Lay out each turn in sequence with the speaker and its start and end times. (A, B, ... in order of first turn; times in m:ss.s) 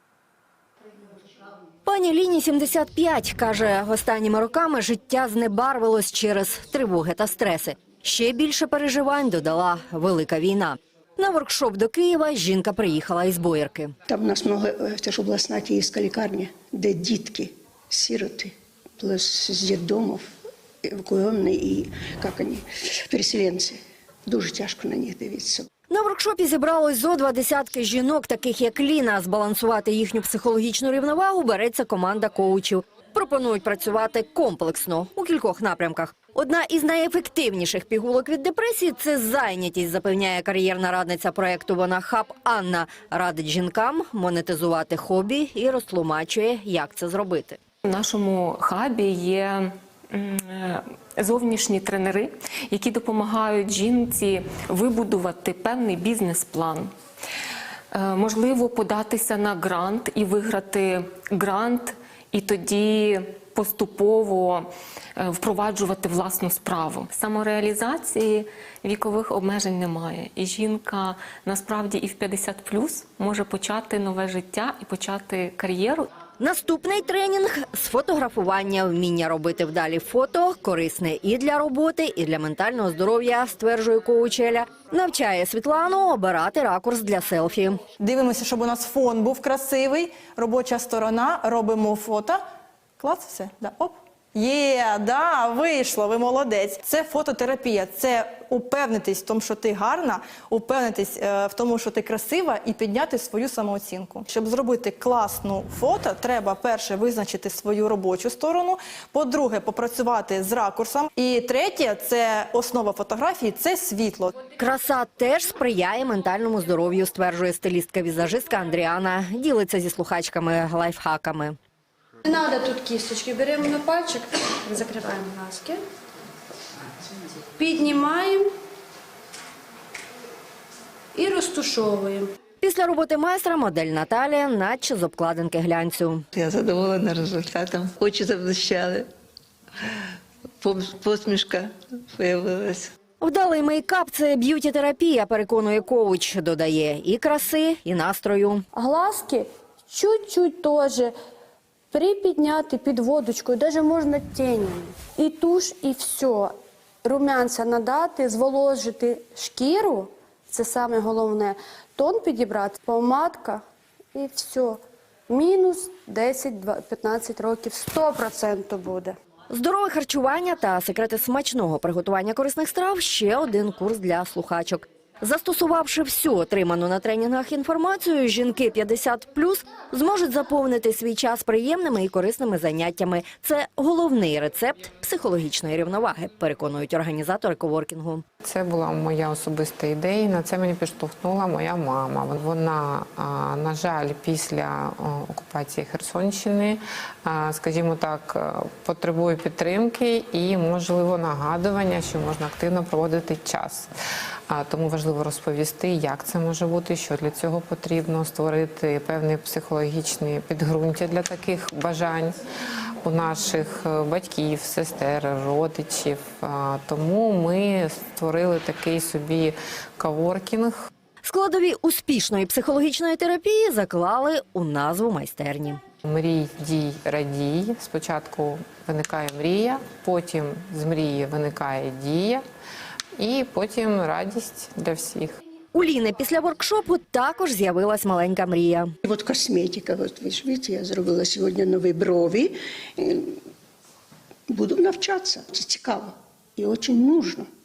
0:01.8-0:13.9 A
0:14.1-0:20.3 B
0:20.8-0:25.7 B
0:25.9-0:47.6 A
0:47.8-0:56.9 C
0:57.9-1:16.1 C
1:16.4-1:27.8 A
1:28.0-1:32.4 D
1:33.0-1:54.3 D
1:54.6-2:01.6 A
2:02.2-2:05.8 E
2:07.6-2:08.5 E
2:11.1-2:12.3 E
2:12.6-2:16.2 A
2:16.3-2:19.1 F
2:20.6-2:22.9 F
2:23.2-2:28.6 A
2:28.7-2:31.1 E
2:31.9-2:36.5 E
2:37.0-2:43.6 E
2:44.1-2:49.1 E
2:49.5-3:08.2 A
3:08.4-3:23.9 G
3:24.5-3:32.4 G
3:33.0-3:40.9 G
3:41.2-3:45.8 A
3:46.0-3:52.4 G
3:53.2-3:55.4 G
3:55.7-3:58.9 A
3:59.0-4:03.4 B
4:04.5-4:07.5 B